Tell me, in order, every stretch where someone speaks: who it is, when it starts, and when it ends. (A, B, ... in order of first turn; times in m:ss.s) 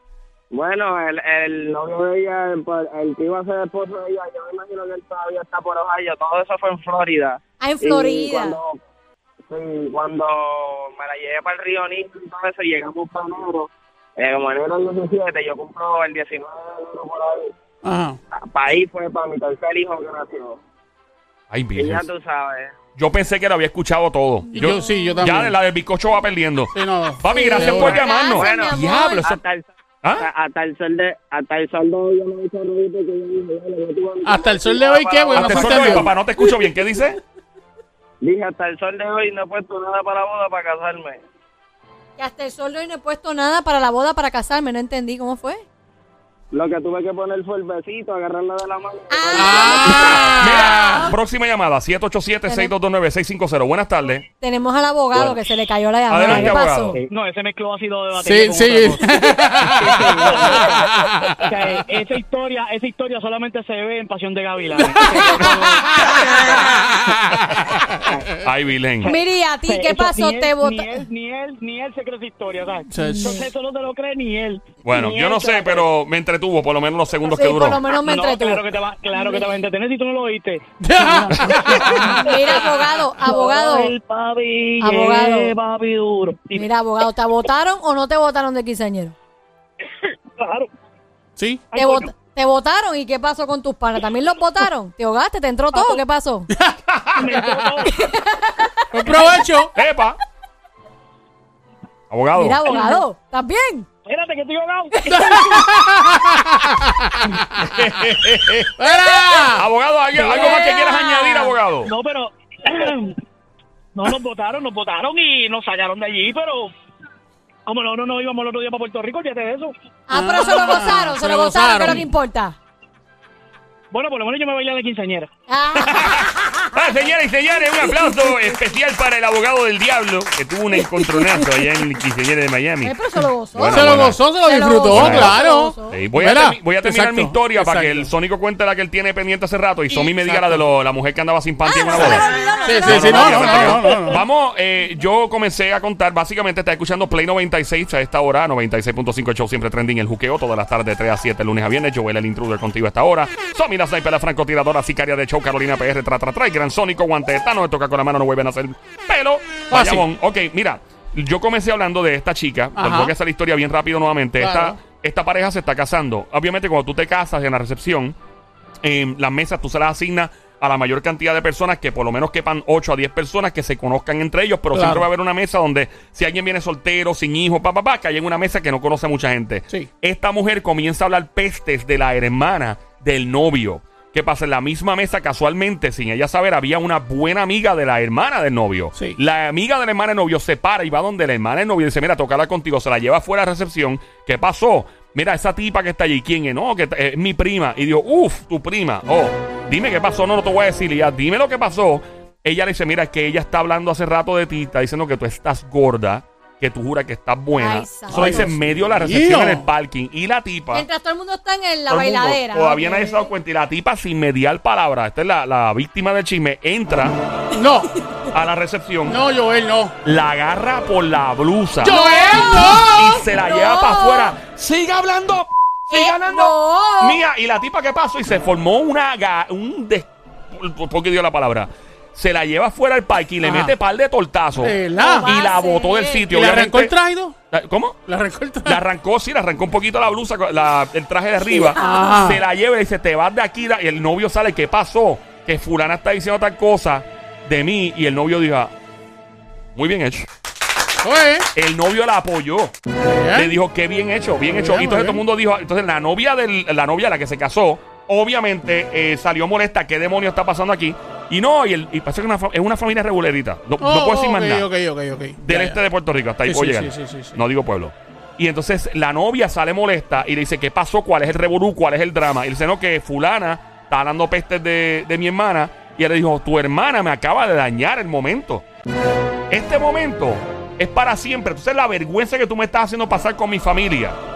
0:00.5-0:08.8 A
0:07.6-0:08.6 B
0:09.5-0:17.5 A
0:17.8-0:18.2 C
0:18.3-0:20.6 A
0:21.5-0:22.1 D
0:21.8-0:22.7 A
0:23.0-0:29.4 D
0:24.5-0:25.2 B
0:24.5-0:25.5 C
0:26.7-0:28.0 C
0:27.3-0:29.3 B
0:27.7-0:36.1 A
0:34.2-0:36.1 C
0:35.3-0:37.2 D
0:38.2-0:41.2 A
0:42.2-0:45.6 B
0:46.5-0:50.4 A
0:49.1-0:51.1 B
0:49.3-0:51.1 C
0:50.4-0:54.3 D
0:52.5-0:52.7 B
0:54.4-0:57.0 B
0:56.1-0:57.0 D
0:57.0-1:00.8 E
0:58.2-1:01.6 C
1:01.4-1:06.8 E
1:04.8-1:08.2 C
1:08.0-1:08.3 E
1:08.4-1:09.1 D
1:09.0-1:15.9 E
1:09.0-1:11.0 B
1:12.9-1:13.4 C
1:13.0-1:13.5 B
1:14.8-1:17.8 D
1:17.2-1:19.5 B
1:17.9-1:26.7 E
1:20.8-1:22.3 C
1:22.2-1:23.9 B
1:24.8-1:25.5 B
1:26.5-1:29.1 B
1:30.3-1:30.7 E
1:31.4-1:31.7 C
1:31.7-1:32.1 E
1:31.7-1:36.5 B
1:35.7-1:36.0 E
1:36.5-1:37.7 C
1:36.9-1:37.2 D
1:37.2-1:37.9 E
1:37.8-1:39.2 B
1:38.9-1:39.7 C
1:39.7-1:40.2 D
1:42.1-1:42.6 D
1:42.3-1:43.9 B
1:42.7-1:43.0 E
1:44.0-1:45.6 E
1:44.9-1:45.6 B
1:45.1-1:49.6 C
1:47.6-1:48.7 D
1:49.5-1:51.9 D
1:50.2-1:50.6 E
1:50.3-1:51.6 B
1:51.8-1:53.2 E
1:53.9-1:56.7 E
1:57.6-1:59.7 E
2:00.1-2:02.6 B
2:00.1-2:02.1 C
2:03.9-2:05.3 E
2:05.5-2:06.9 B
2:05.7-2:12.9 D
2:07.8-2:08.6 B
2:10.9-2:11.6 B
2:12.8-2:16.0 B
2:13.5-2:14.2 D
2:13.7-2:18.1 C
2:14.9-2:22.3 D
2:20.2-2:20.6 C
2:21.6-2:23.9 B
2:22.6-2:24.2 C
2:22.8-2:48.1 D
2:39.7-2:40.1 C
2:42.7-2:43.1 C
2:44.4-2:44.8 C
2:48.8-3:30.8 D
2:54.7-2:55.1 C
3:27.6-3:28.5 B
3:28.1-3:29.7 C
3:30.7-3:33.3 B
3:31.9-3:37.2 D
3:37.5-3:37.9 C
3:38.3-3:39.2 D
3:39.0-3:39.9 C
3:40.0-3:56.9 D
3:41.8-3:43.2 C
3:41.8-3:44.3 B
3:45.9-3:47.2 B
3:53.4-3:53.7 C
3:54.6-3:55.3 C
3:55.0-3:56.2 B
3:56.3-3:57.4 C
3:57.5-3:58.0 D
3:58.0-3:58.8 C
3:58.6-4:08.7 D
4:01.5-4:02.4 B
4:01.8-4:02.4 C
4:09.7-4:10.3 D
4:11.0-4:11.5 C
4:11.5-4:12.7 D
4:13.0-4:13.5 C
4:13.3-4:24.7 D
4:14.5-4:15.2 C
4:23.8-4:25.8 C
4:25.4-4:38.6 D
4:26.4-4:27.4 C
4:39.5-4:44.2 D